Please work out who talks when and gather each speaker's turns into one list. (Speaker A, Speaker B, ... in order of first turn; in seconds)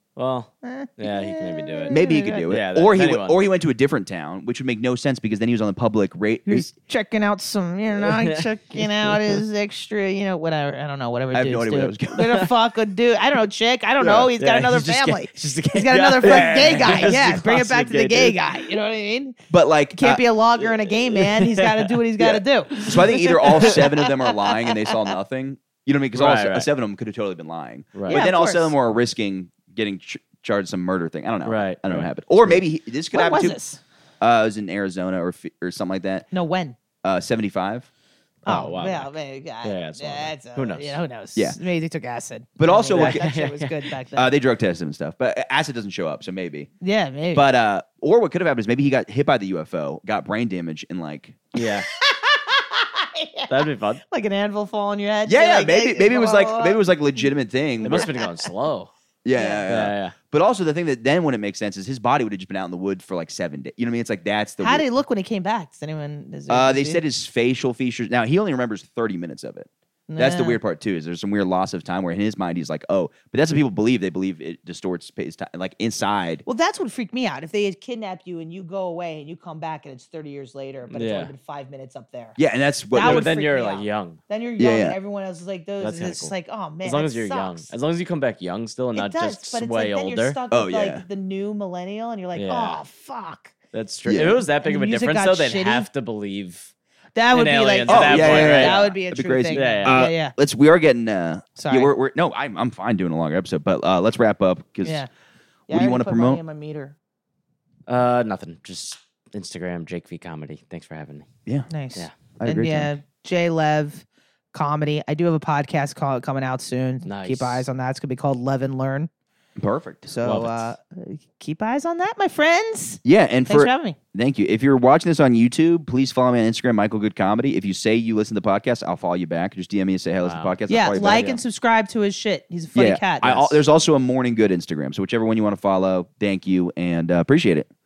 Speaker A: 0.2-3.4, 8.0-9.4, 14.0-18.4, 20.6-23.8, 26.1-26.7, 27.9-28.2, 31.4-32.6, 38.5-41.0, 42.9-43.9, 51.5-51.9, 53.5-54.0, 57.8-58.9, 59.7-60.1, 80.9-81.3, 83.0-84.2, 85.8-86.3, 86.8-90.4, 92.3-92.8, 93.7-96.7, 97.3-98.8, 99.5-100.0, 107.9-111.3, 117.1-117.7, 120.2-120.7, 130.2-131.4
Speaker B: 0.6-2.5, 6.5-19.4, 19.9-24.5, 28.1-28.8, 33.1-33.8, 36.3-36.8, 38.5-44.3, 46.8-47.5, 52.0-56.8, 57.9-58.5, 59.3-59.6, 64.6-67.0, 70.1-70.6, 76.5-82.4, 82.9-87.7, 88.9-93.5, 94.6-95.9, 97.2-100.3, 101.6-101.9, 104.8-105.1, 105.7-107.0, 111.7-119.1, 120.1-124.0, 130.7-133.6
Speaker C: 1.9-6.7, 11.3-12.4, 16.2-17.2, 19.5-20.2, 22.3-33.6, 34.2-36.3, 37.0-37.9, 42.6-43.3, 44.1-46.7, 47.3-51.4, 55.3-58.1, 59.2-64.8, 66.5-76.4, 82.4-83.3, 84.6-85.0, 90.5-91.0, 94.1-94.4, 97.9-105.0, 105.7-106.4, 112.4-112.9, 119.6-120.1, 123.0-131.2, 132.8-137.7